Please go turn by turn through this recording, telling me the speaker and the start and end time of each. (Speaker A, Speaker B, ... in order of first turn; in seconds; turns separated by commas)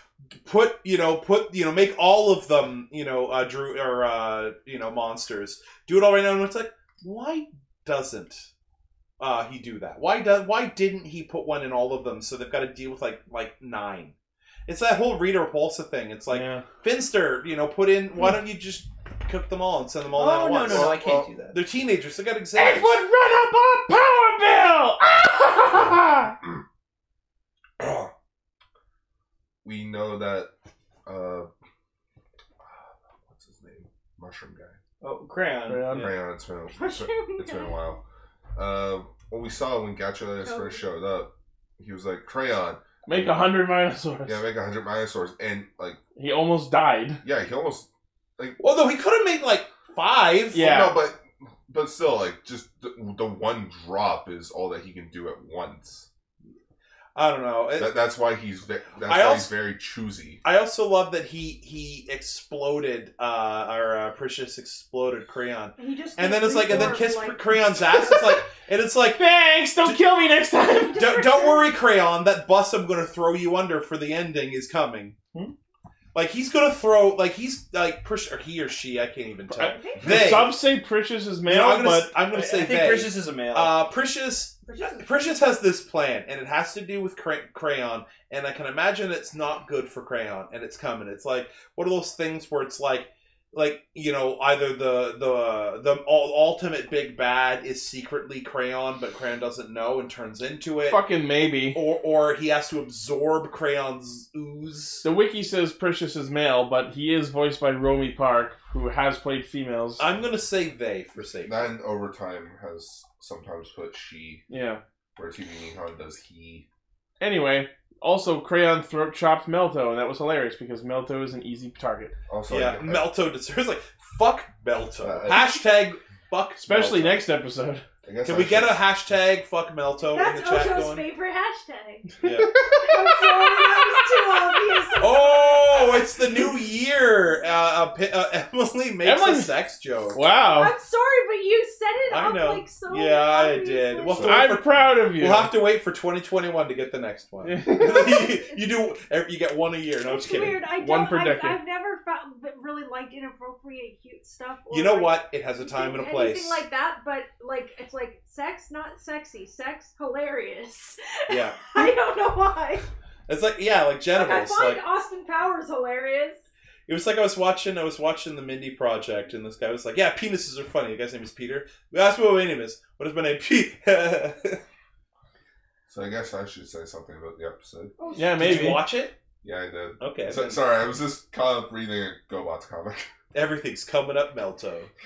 Speaker A: 0.5-8.5, Speaker A: 9.2-14.1, Speaker A: 14.7-21.0, Speaker B: 16.3-16.6, Speaker C: 20.1-21.6, Speaker D: 20.7-21.3, Speaker A: 21.5-23.0, Speaker B: 22.6-26.4, Speaker D: 27.8-28.1, Speaker D: 29.6-30.5, Speaker D: 31.1-31.5, Speaker D: 32.6-34.8, Speaker C: 35.0-36.1, Speaker B: 35.7-36.1, Speaker D: 35.9-38.0, Speaker E: 36.7-37.8, Speaker D: 38.6-43.4, Speaker E: 40.4-40.9, Speaker B: 43.1-44.4, Speaker D: 44.3-46.0, Speaker B: 46.2-47.2, Speaker D: 47.2-48.6, Speaker A: 48.6-50.7, Speaker B: 50.5-51.0, Speaker D: 50.5-56.1, Speaker A: 57.1-58.0, Speaker D: 57.8-60.4, Speaker A: 59.0-59.5, Speaker A: 60.4-69.2, Speaker E: 65.8-68.1, Speaker B: 69.2-71.0, Speaker E: 70.7-71.7, Speaker A: 70.9-75.2, Speaker A: 76.1-80.6, Speaker B: 79.5-82.2, Speaker E: 79.6-80.3, Speaker A: 81.5-101.0, Speaker C: 82.3-83.8, Speaker E: 84.7-85.1, Speaker B: 100.9-101.8, Speaker A: 101.7-105.1, Speaker B: 105.0-110.1, Speaker A: 110.0-111.6, Speaker D: 111.5-114.4, Speaker B: 114.5-114.8, Speaker D: 115.2-116.7, Speaker B: 117.2-122.1, Speaker D: 122.3-123.1, Speaker A: 122.5-127.2, Speaker D: 125.0-125.5, Speaker B: 126.6-127.8, Speaker D: 128.0-128.8, Speaker A: 128.2-131.0, Speaker E: 130.1-132.2, Speaker A: 132.2-132.6, Speaker E: 132.8-136.2, Speaker A: 135.0-140.2, Speaker B: 139.0-139.6, Speaker B: 140.1-140.7, Speaker E: 140.5-144.4, Speaker A: 142.1-150.6, Speaker B: 144.2-145.5, Speaker B: 147.4-148.3, Speaker E: 150.0-162.9, Speaker B: 150.7-151.6, Speaker A: 154.7-156.6, Speaker A: 161.3-161.9, Speaker A: 163.3-164.8, Speaker E: 164.1-166.4, Speaker A: 166.9-174.6, Speaker D: 175.9-177.9, Speaker E: 178.0-178.7, Speaker B: 178.2-178.8, Speaker A: 178.3-179.2, Speaker D: 179.4-183.1, Speaker A: 180.0-180.6, Speaker A: 183.3-184.9